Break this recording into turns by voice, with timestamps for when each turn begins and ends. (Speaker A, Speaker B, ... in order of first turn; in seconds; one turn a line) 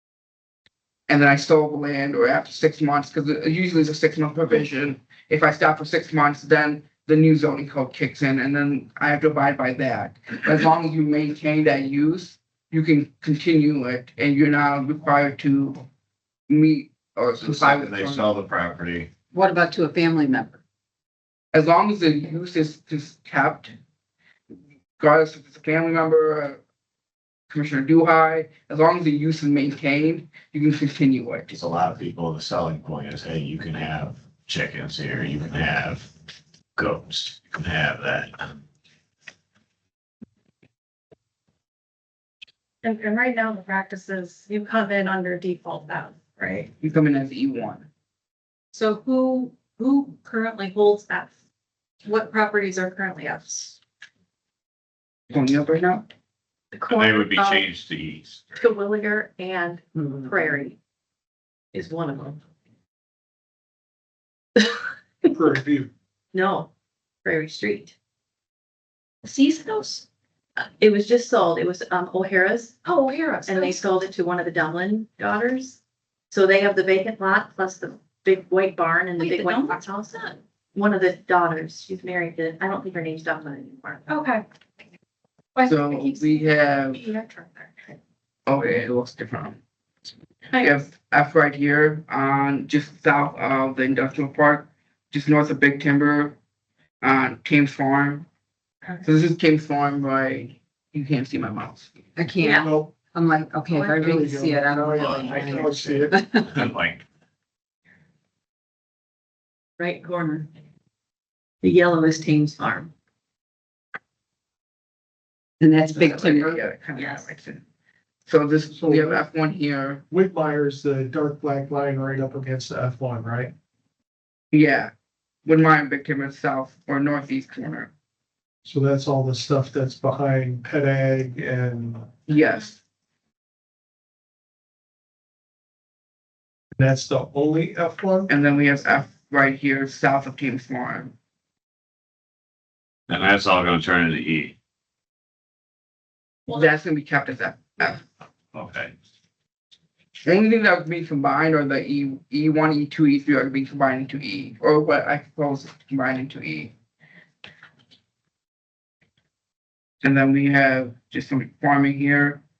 Speaker A: 1.1-15.8
Speaker A: 16.5-18.3
Speaker B: 17.4-19.1
Speaker C: 19.3-20.6
Speaker A: 21.5-23.7
Speaker A: 25.0-26.6
Speaker A: 27.5-31.6
Speaker B: 31.5-36.1
Speaker B: 36.8-38.6
Speaker D: 42.8-46.7
Speaker A: 46.8-47.9
Speaker D: 48.7-51.3
Speaker D: 52.0-53.8
Speaker A: 55.3-56.1
Speaker E: 56.7-57.7
Speaker B: 56.9-58.6
Speaker E: 58.6-60.8
Speaker E: 61.7-62.4
Speaker F: 65.3-65.9
Speaker E: 66.3-66.7
Speaker E: 67.2-67.9
Speaker D: 69.2-70.0
Speaker E: 69.6-70.0
Speaker E: 70.6-72.8
Speaker D: 72.8-73.8
Speaker E: 73.5-75.8
Speaker E: 76.3-84.0
Speaker D: 79.2-80.3
Speaker D: 84.1-84.4
Speaker D: 85.5-88.0
Speaker A: 85.6-87.0
Speaker A: 88.5-89.6
Speaker A: 90.6-96.4
Speaker A: 97.0-98.2
Speaker A: 99.0-101.9
Speaker C: 102.2-106.6
Speaker E: 102.4-102.7
Speaker F: 102.4-102.9
Speaker F: 103.8-106.2
Speaker B: 104.9-107.0
Speaker E: 109.8-110.5
Speaker E: 111.6-112.9
Speaker C: 115.6-116.6
Speaker A: 115.9-117.6
Speaker E: 117.0-117.2
Speaker A: 118.3-120.0
Speaker F: 118.7-119.3
Speaker F: 120.1-123.5
Speaker A: 124.5-124.9
Speaker A: 125.4-127.9
Speaker F: 128.6-132.1
Speaker A: 132.3-132.8
Speaker F: 136.8-138.3
Speaker A: 138.3-141.1
Speaker B: 143.1-144.5
Speaker A: 146.5-148.0
Speaker B: 148.5-148.9
Speaker A: 150.2-156.7
Speaker A: 160.0-162.4